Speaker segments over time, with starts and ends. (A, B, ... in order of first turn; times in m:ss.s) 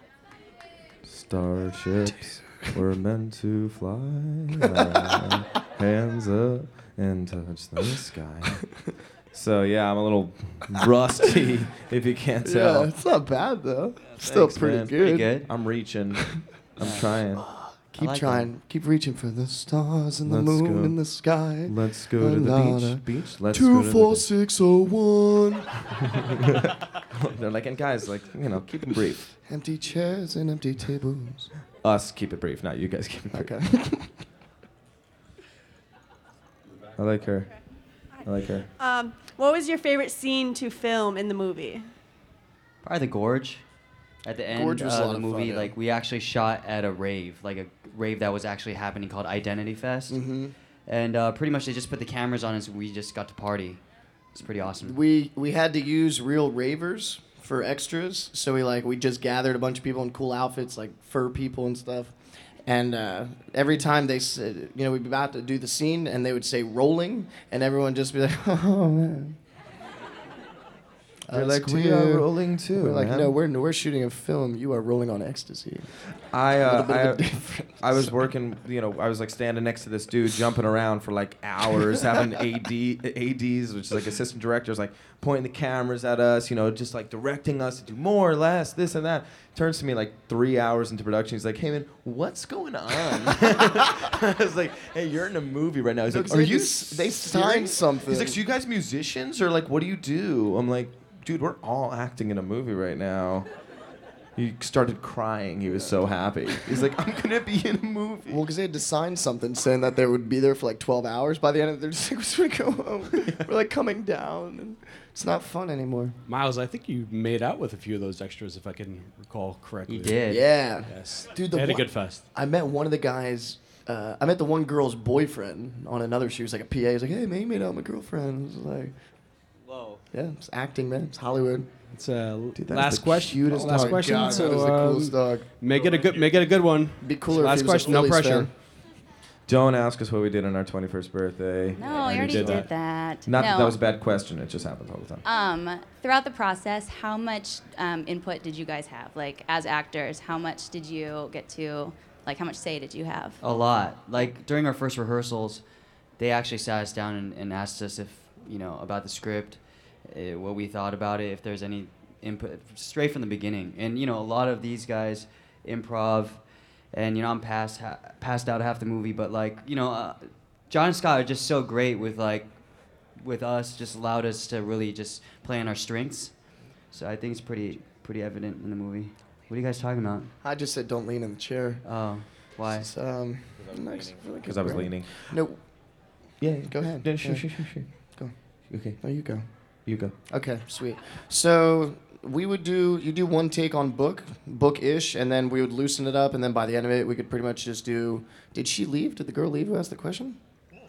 0:01.0-0:08.7 A
0:04.6-0:05.3 B
0:09.3-0:12.9 A
0:12.4-0:15.3 B
0:14.2-0:17.4 A
0:15.0-0:15.5 C
0:16.8-0:17.2 C
0:17.4-0:26.2 B
0:18.0-0:18.5 C
0:20.3-0:21.0 A
0:21.7-0:24.3 A
0:26.6-0:29.3 A
0:29.4-0:31.5 B
0:31.8-0:33.5 A
0:33.3-0:34.1 B
0:37.0-0:37.5 A
0:38.2-0:38.7 A
0:38.8-0:41.9 D
0:42.8-0:43.6 C
0:44.2-0:50.2 C
0:44.5-0:45.7 B
0:50.1-0:50.6 B
0:50.9-0:53.8 C
0:54.4-0:55.0 C
0:54.7-1:02.2 B
1:02.7-1:09.4 B
1:11.3-1:15.9 B
1:11.3-1:13.3 A
1:16.3-1:43.5 A
1:16.6-1:18.2 B
1:36.1-1:38.4 B
1:44.4-1:48.4 A
1:48.3-1:56.2 B
1:56.3-2:00.3 E
1:59.9-2:00.5 C
2:00.3-2:08.9 B
2:00.8-2:02.2 E
2:10.1-2:11.7 B
2:11.9-2:18.5 E
2:12.6-2:14.2 A
2:13.4-2:15.5 B
2:17.0-2:18.5 B
2:19.5-2:22.7 A
2:21.8-2:23.8 F
2:22.0-2:22.7 E
2:23.2-2:25.2 A
2:25.2-2:33.4 F
2:33.4-2:35.6 C
2:36.2-2:46.4 C
2:46.9-2:52.5 C
2:53.2-2:56.3 C
2:56.9-3:00.3 C
3:00.4-3:01.8 B
3:01.8-3:02.9 C
3:02.7-3:05.6 B
3:04.4-3:05.4 A
3:06.4-3:07.9 A
3:06.7-3:08.3 B
3:08.7-3:09.0 A
3:08.9-3:09.4 B
3:09.9-3:10.1 A
3:10.3-3:20.4 B